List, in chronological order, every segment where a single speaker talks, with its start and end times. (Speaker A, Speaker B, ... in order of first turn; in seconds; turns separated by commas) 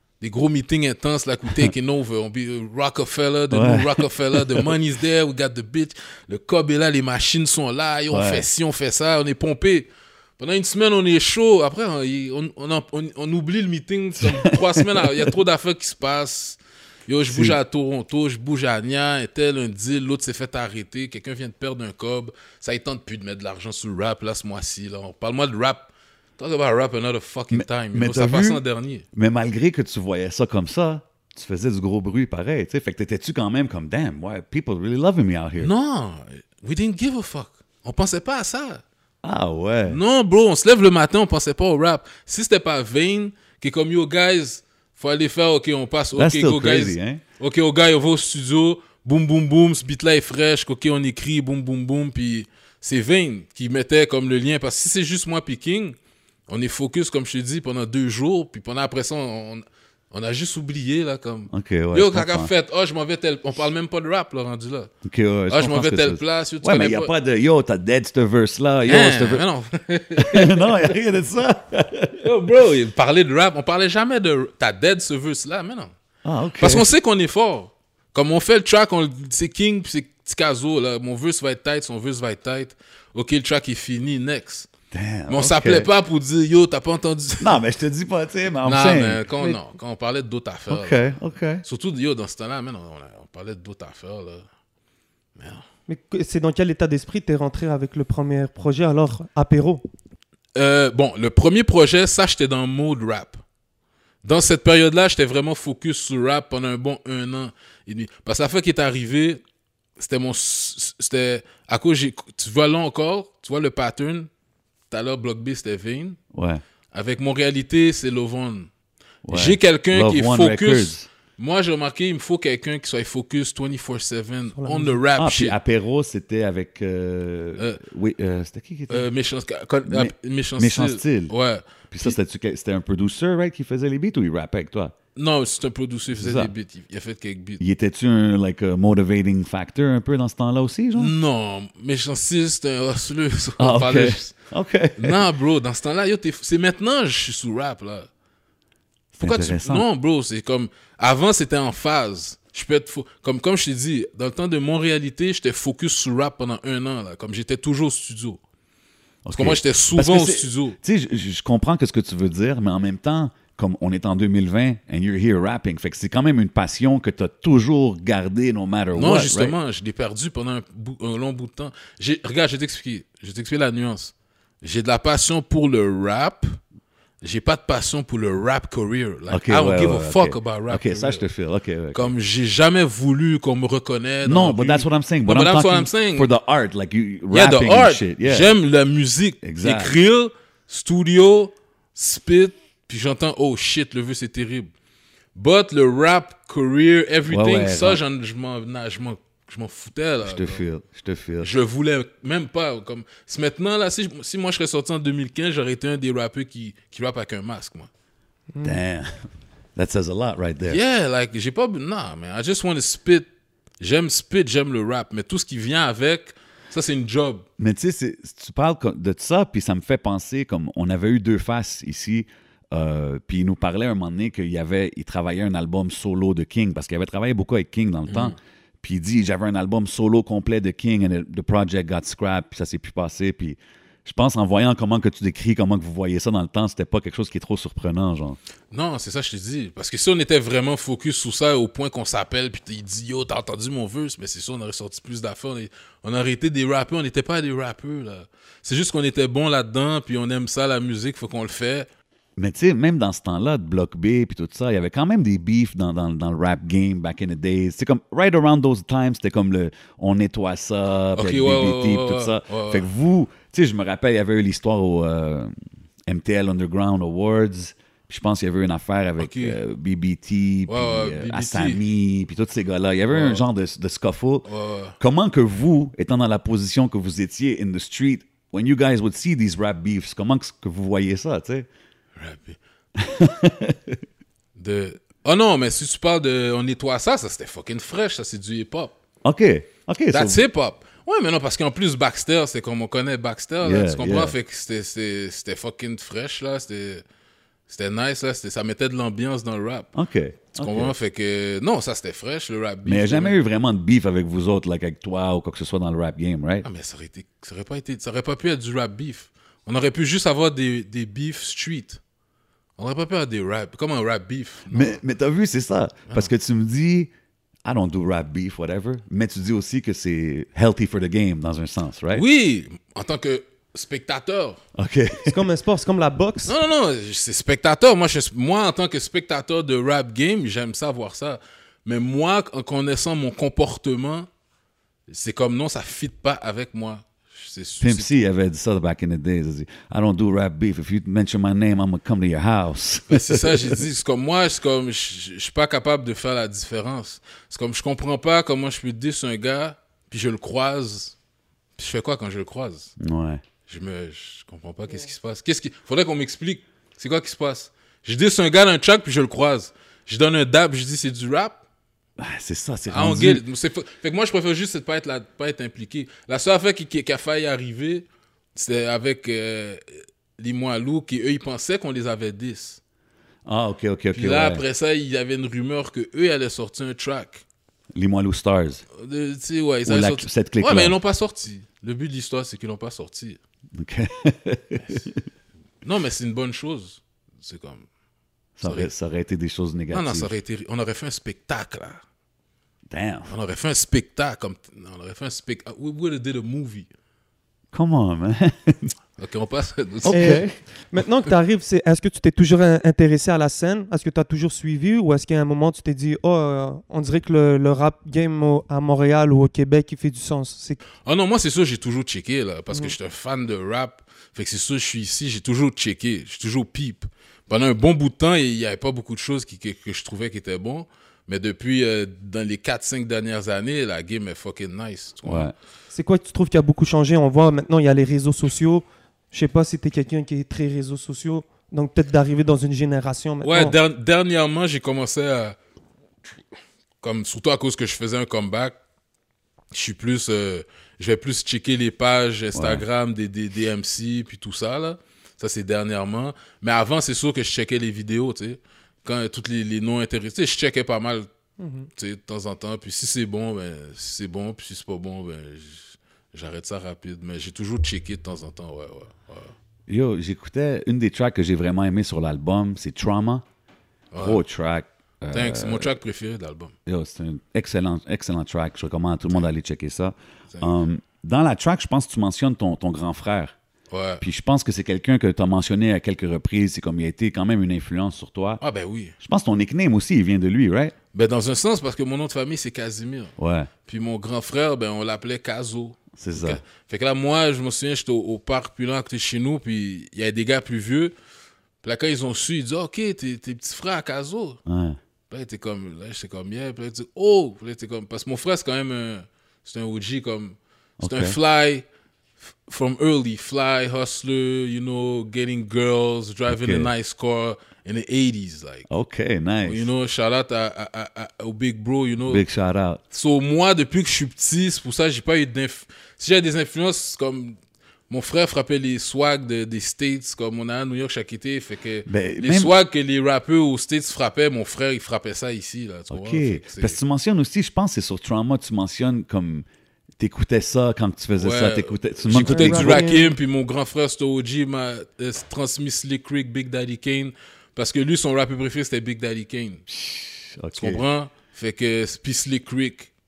Speaker A: 0.2-29.0, Speaker B: 3.5-4.7, Speaker B: 8.1-8.5, Speaker B: 14.2-15.3, Speaker B: 17.3-17.6, Speaker B: 27.5-28.6, Speaker B: 29.1-35.7, Speaker A: 35.6-38.8, Speaker B: 39.2-40.0, Speaker A: 39.9-56.0, Speaker B: 46.1-47.2, Speaker A: 56.5-64.9, Speaker B: 61.5-62.5, Speaker B: 65.0-69.5, Speaker A: 65.5-67.1, Speaker A: 68.9-70.9, Speaker B: 70.2-72.2, Speaker A: 72.2-75.9, Speaker B: 76.2-76.9, Speaker A: 76.6-84.7, Speaker B: 84.9-85.9, Speaker A: 85.3-87.6, Speaker B: 87.4-89.2, Speaker A: 88.6-91.1, Speaker B: 90.7-91.6, Speaker A: 91.6-94.5, Speaker A: 95.4-95.7, Speaker C: 95.9-99.8, Speaker A: 100.6-103.4, Speaker A: 104.2-109.4, Speaker A: 110.0-114.3, Speaker A: 114.9-116.2, Speaker B: 116.3-116.6, Speaker A: 116.9-118.7, Speaker B: 119.2-121.1, Speaker A: 119.3-125.6, Speaker C: 124.5-125.0, Speaker B: 125.2-129.1, Speaker A: 128.9-132.2, Speaker B: 129.9-131.3, Speaker B: 131.9-134.9, Speaker A: 135.2-137.6, Speaker B: 136.1-136.5, Speaker B: 137.6-141.1, Speaker A: 140.9-144.3, Speaker B: 143.6-145.2, Speaker A: 145.0-148.1, Speaker B: 149.1-149.8, Speaker A: 149.2-158.4, Speaker B: 159.2-169.6, Speaker A: 159.3-160.8, Speaker A: 168.9-176.6, Speaker A: 177.2-181.2, Speaker B: 179.3-182.1, Speaker A: 181.9-186.3, Speaker B: 184.2-188.6, Speaker A: 187.3-194.7, Speaker B: 189.4-189.9, Speaker A: 195.3-200.6, Speaker B: 197.3-198.0, Speaker B: 200.2-201.6, Speaker A: 201.4-207.9, Speaker C: 208.5-208.8, Speaker B: 208.6-209.2, Speaker B: 209.8-210.8, Speaker A: 210.7-213.3, Speaker A: 213.8-217.4, Speaker B: 217.6-238.4, Speaker A: 228.1-228.4, Speaker A: 238.7-251.9, Speaker B: 252.4-265.5, Speaker A: 261.1-262.9, Speaker B: 266.1-274.5, Speaker A: 269.2-269.6, Speaker A: 270.7-271.8, Speaker A: 273.1-273.4, Speaker A: 274.5-274.9, Speaker B: 275.0-281.7, Speaker A: 282.1-282.6, Speaker B: 282.9-284.0, Speaker A: 284.6-288.9, Speaker B: 289.2-290.4, Speaker A: 290.1-297.0, Speaker B: 293.6-294.4, Speaker A: 297.7-299.9, Speaker B: 299.9-300.9, Speaker A: 300.5-303.4, Speaker B: 302.9-306.6, Speaker A: 306.6-312.0, Speaker A: 312.8-315.0, Speaker B: 314.7-317.1, Speaker B: 317.6-322.2, Speaker A: 322.1-324.6, Speaker B: 324.7-325.4, Speaker C: 325.2-326.5, Speaker A: 326.4-334.3, Speaker A: 335.1-338.2, Speaker B: 337.8-343.8, Speaker A: 343.1-351.1, Speaker A: 351.8-352.9, Speaker B: 353.0-353.4, Speaker A: 353.7-361.6, Speaker B: 362.2-363.4, Speaker A: 362.9-372.8, Speaker B: 373.4-374.6, Speaker A: 374.1-377.4, Speaker B: 377.9-378.8, Speaker A: 378.9-383.4, Speaker B: 379.9-380.9, Speaker B: 383.8-385.2, Speaker A: 385.8-387.9, Speaker B: 388.6-390.3, Speaker A: 388.6-388.9, Speaker A: 389.9-392.0, Speaker B: 392.9-393.3, Speaker A: 393.3-396.9, Speaker B: 397.7-398.9, Speaker A: 399.2-400.4, Speaker B: 400.0-400.5, Speaker C: 400.1-410.8, Speaker A: 411.0-425.5, Speaker B: 425.2-425.5, Speaker C: 425.9-433.8, Speaker A: 433.4-435.6, Speaker A: 437.0-438.8, Speaker A: 439.7-451.3, Speaker B: 442.5-442.9, Speaker C: 451.6-451.9, Speaker A: 451.9-459.5, Speaker B: 459.9-463.4, Speaker A: 464.1-464.4, Speaker B: 464.1-465.9, Speaker A: 465.3-466.7, Speaker B: 466.9-473.5, Speaker A: 470.5-470.8, Speaker A: 473.9-474.2, Speaker B: 474.2-478.6, Speaker A: 478.6-479.1, Speaker B: 479.2-480.9, Speaker A: 481.1-483.4, Speaker B: 483.4-483.7, Speaker A: 483.9-491.1, Speaker B: 486.1-486.6, Speaker A: 491.8-494.6, Speaker B: 494.6-495.0, Speaker A: 495.3-501.9, Speaker B: 501.0-501.4, Speaker A: 502.6-508.9, Speaker B: 506.5-506.9, Speaker B: 508.9-509.9, Speaker A: 509.6-512.4, Speaker B: 512.2-513.0, Speaker A: 513.1-517.6, Speaker A: 518.1-527.0, Speaker B: 522.1-522.7, Speaker B: 526.1-529.6, Speaker B: 530.2-533.1, Speaker A: 531.4-539.8, Speaker C: 532.3-533.4, Speaker B: 539.9-541.0, Speaker A: 540.8-543.1